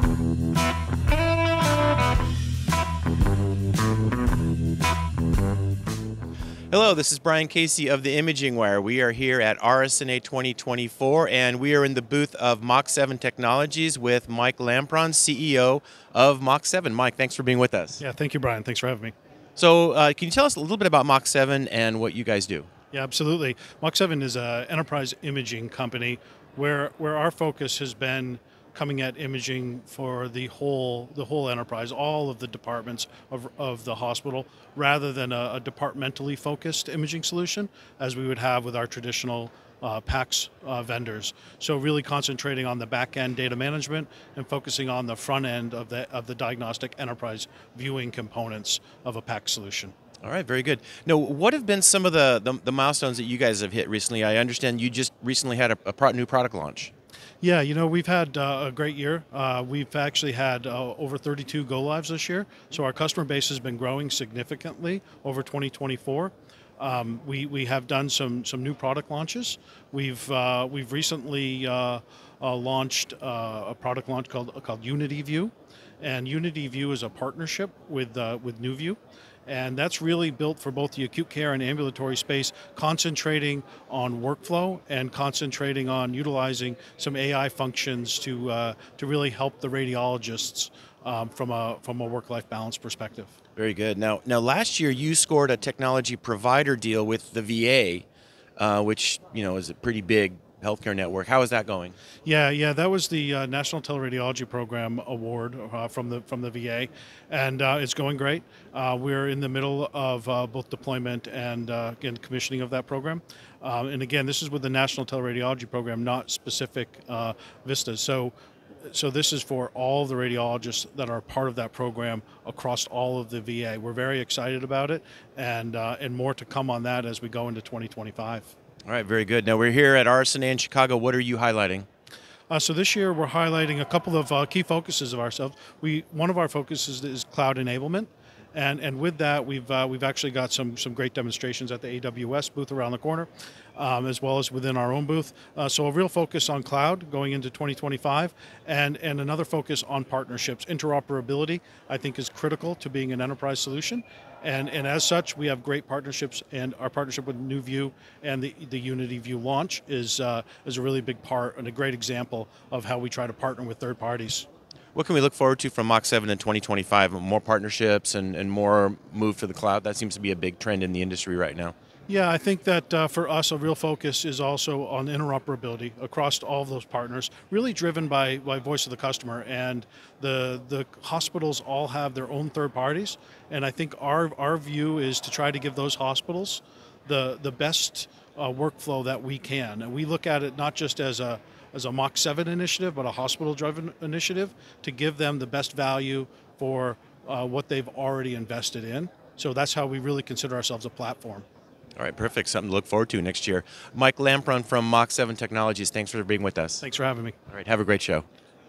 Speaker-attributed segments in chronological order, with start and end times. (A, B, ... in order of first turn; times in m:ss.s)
0:06.7-0:18.0 A
0:18.0-0:19.1 B
0:19.6-0:22.7 A
0:22.9-0:49.9 B
0:50.2-0:56.9 A
0:57.4-1:33.4 B
1:33.6-1:38.1 A
1:38.6-1:42.0 A
1:42.2-1:58.3 B
1:58.9-2:08.5 B
2:08.8-2:11.9 A
2:12.5-2:44.5 B
2:44.9-2:51.7 A
2:52.1-3:21.5 B
3:22.0-3:26.8 A
3:26.8-3:27.4 B
3:27.5-3:28.2 A